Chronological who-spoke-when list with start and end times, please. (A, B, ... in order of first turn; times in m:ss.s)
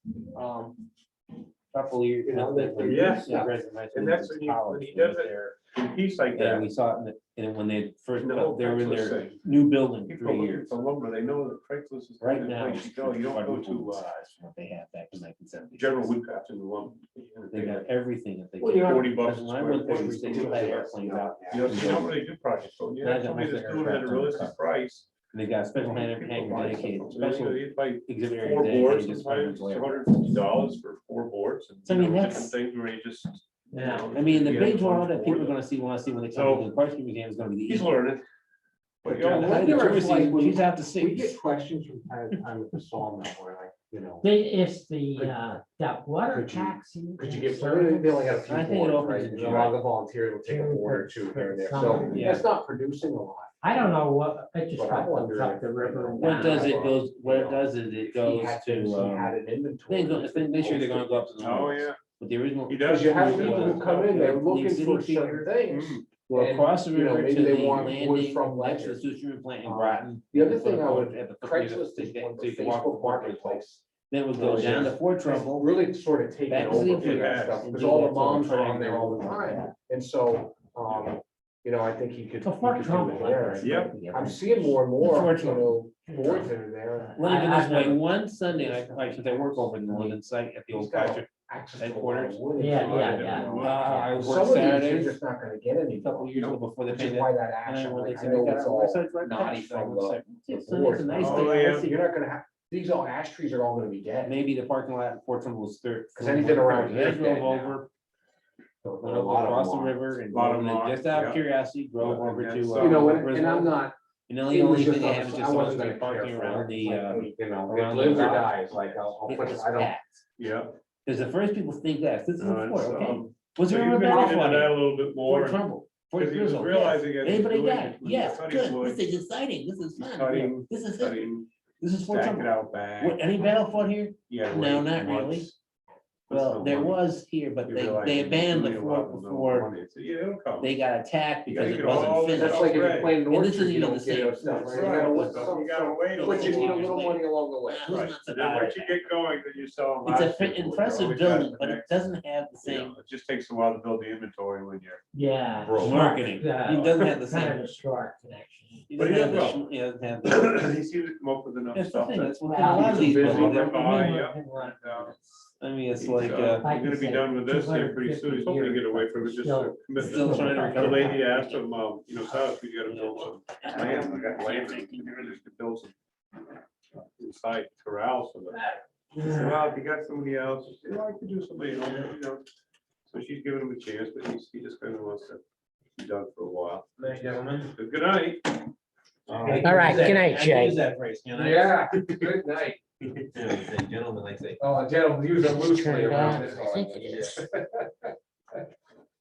0:00.3-0:00.8 A
0:01.7-0:05.6 B
0:02.2-0:03.5 A
0:02.8-0:06.6 C
0:06.3-0:10.7 B
0:08.2-0:09.4 C
0:10.0-0:14.0 C
0:12.2-0:16.1 B
0:15.8-0:17.9 C
0:17.5-0:22.1 B
0:18.6-0:20.9 C
0:18.7-0:19.0 A
0:19.9-0:22.1 A
0:21.5-0:25.1 C
0:23.0-0:24.6 B
0:25.3-0:30.1 B
0:25.8-0:35.6 C
0:31.8-0:32.5 B
0:33.8-0:37.9 B
0:36.3-0:36.7 C
0:37.7-0:38.2 C
0:39.0-0:40.3 C
0:39.1-0:41.4 B
0:39.1-0:44.3 A
0:44.2-0:48.4 D
0:45.2-0:45.4 A
0:46.3-0:53.5 A
0:48.4-0:49.8 B
0:50.4-0:52.2 D
0:52.1-0:52.5 B
0:53.6-0:56.9 D
0:54.8-1:01.3 A
0:56.2-0:59.3 B
0:59.9-1:05.5 B
1:01.4-1:02.0 C
1:02.7-1:04.4 C
1:02.8-1:09.0 A
1:05.7-1:06.0 C
1:06.3-1:15.7 B
1:09.6-1:13.8 A
1:14.4-1:27.3 A
1:14.4-1:14.9 C
1:16.5-1:19.7 B
1:17.0-1:17.6 C
1:22.4-1:24.4 D
1:23.6-1:23.9 C
1:25.0-1:25.7 B
1:26.1-1:26.4 D
1:27.0-1:28.0 D
1:27.2-1:35.2 B
1:28.5-1:30.2 A
1:30.7-1:44.3 A
1:32.6-1:33.5 D
1:33.3-1:34.0 C
1:36.0-1:42.0 B
1:41.2-1:41.9 C
1:44.2-1:47.9 B
1:46.1-1:47.8 A
1:48.8-1:50.0 A
1:49.0-1:53.8 B
1:50.3-1:51.4 C
1:52.0-1:53.2 C
1:52.7-1:53.9 A
1:54.3-2:00.2 B
1:54.5-1:59.9 A
2:00.4-2:00.8 C
2:01.0-2:15.5 B
2:02.4-2:05.6 C
2:04.1-2:04.4 A
2:06.2-2:09.2 C
2:10.0-2:11.5 C
2:12.0-2:13.3 C
2:14.3-2:15.6 C
2:16.3-2:17.0 C
2:16.3-2:19.7 B
2:17.6-2:20.8 C
2:20.6-2:29.0 B
2:21.5-2:23.2 C
2:22.2-2:28.6 A
2:24.5-2:27.0 C
2:27.9-2:32.0 C
2:30.0-2:33.0 B
2:31.0-2:31.4 A
2:32.6-2:35.0 C
2:35.1-2:38.8 D
2:35.6-2:36.1 C
2:35.8-2:37.7 B
2:36.7-2:37.0 C
2:38.9-2:40.6 B
2:39.0-2:39.6 C
2:40.2-2:45.1 C
2:41.7-2:44.2 B
2:42.4-2:45.3 D
2:42.8-2:44.1 A
2:45.6-2:46.6 B
2:46.0-2:55.9 C
2:46.6-2:50.6 D
2:50.0-2:51.6 B
2:50.1-2:51.2 A
2:52.8-2:55.3 B
2:57.0-2:58.6 C
2:59.2-3:02.4 C
3:03.0-3:05.4 C
3:06.0-3:07.0 C
3:07.0-3:07.7 B
3:07.7-3:08.7 C
3:09.3-3:12.2 B
3:09.3-3:09.8 C
3:09.4-3:10.2 A
3:09.6-3:10.8 D
3:11.3-3:12.8 A
3:13.3-3:14.8 B
3:14.6-3:18.1 A
3:15.9-3:16.8 D
3:16.0-3:17.4 B